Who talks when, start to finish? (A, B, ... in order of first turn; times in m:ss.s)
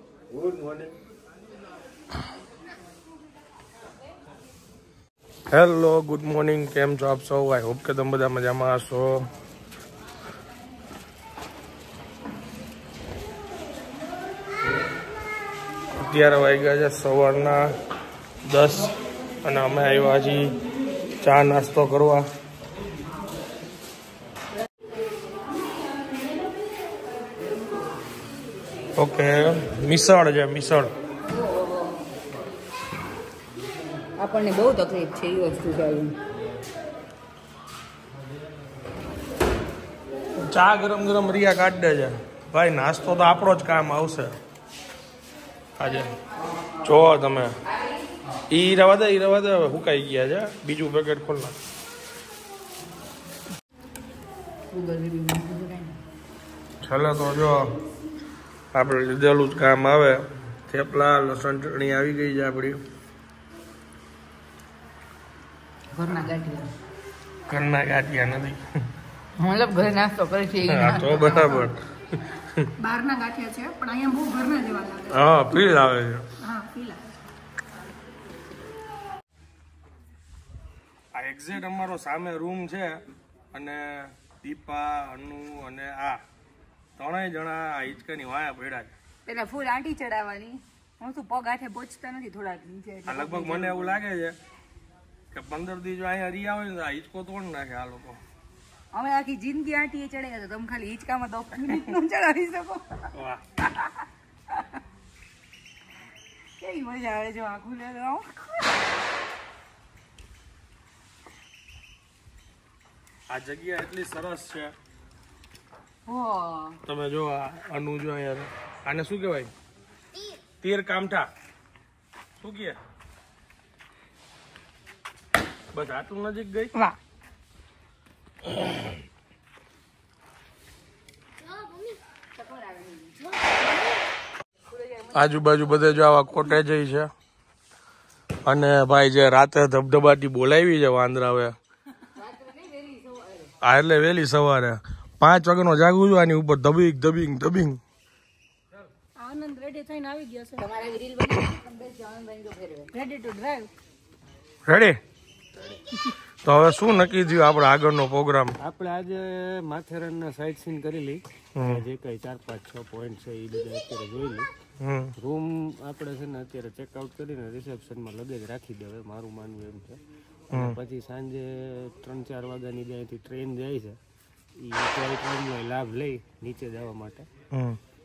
0:00.3-0:00.9 A
0:05.5-0:09.2 B
0:16.0-0:17.7 B
0:18.4-0:18.9 B
0:19.4-0:20.5 B
0:21.2-0:22.2 B
0:29.0-0:30.9 B
0:31.4-0:31.8 C
0:34.2-0:36.2 C
0:40.4-0:44.4 B
0:45.8-0:46.1 B
0:46.8-0:47.5 B
0:48.5-0:51.6 B
0:54.7-0:56.0 C
0:56.8-0:57.7 B
0:58.7-1:02.8 B
1:05.9-1:06.7 C
1:07.5-1:08.6 B
1:09.4-1:11.7 C
1:10.7-1:11.8 B
1:12.3-1:12.7 B
1:12.8-1:15.2 D
1:15.1-1:16.3 B
1:16.4-1:17.1 D
1:21.1-1:26.2 B
1:27.0-1:28.9 B
1:29.2-1:34.0 C
1:33.0-1:34.4 B
1:35.3-1:38.2 B
1:38.9-1:42.9 C
1:43.1-1:43.4 B
1:46.6-1:48.6 C
1:53.3-1:54.7 B
1:56.1-1:56.8 C
1:56.8-1:59.5 B
2:00.5-2:01.3 B
2:02.4-2:02.8 B
2:05.7-2:06.7 B
2:12.4-2:13.2 C
2:15.1-2:17.1 B
2:18.4-2:21.6 B
2:22.1-2:23.5 C
2:23.6-2:27.8 B
2:29.2-2:30.6 D
2:30.6-2:32.9 C
2:32.9-2:33.7 D
2:34.6-2:35.0 B
2:36.4-2:38.6 B
2:38.6-2:44.5 A
2:41.6-2:41.8 B
2:44.8-2:45.1 B
2:45.2-2:50.0 A
2:50.5-2:54.0 A
2:50.5-2:50.8 B
2:54.6-2:57.2 A
2:57.5-2:57.8 B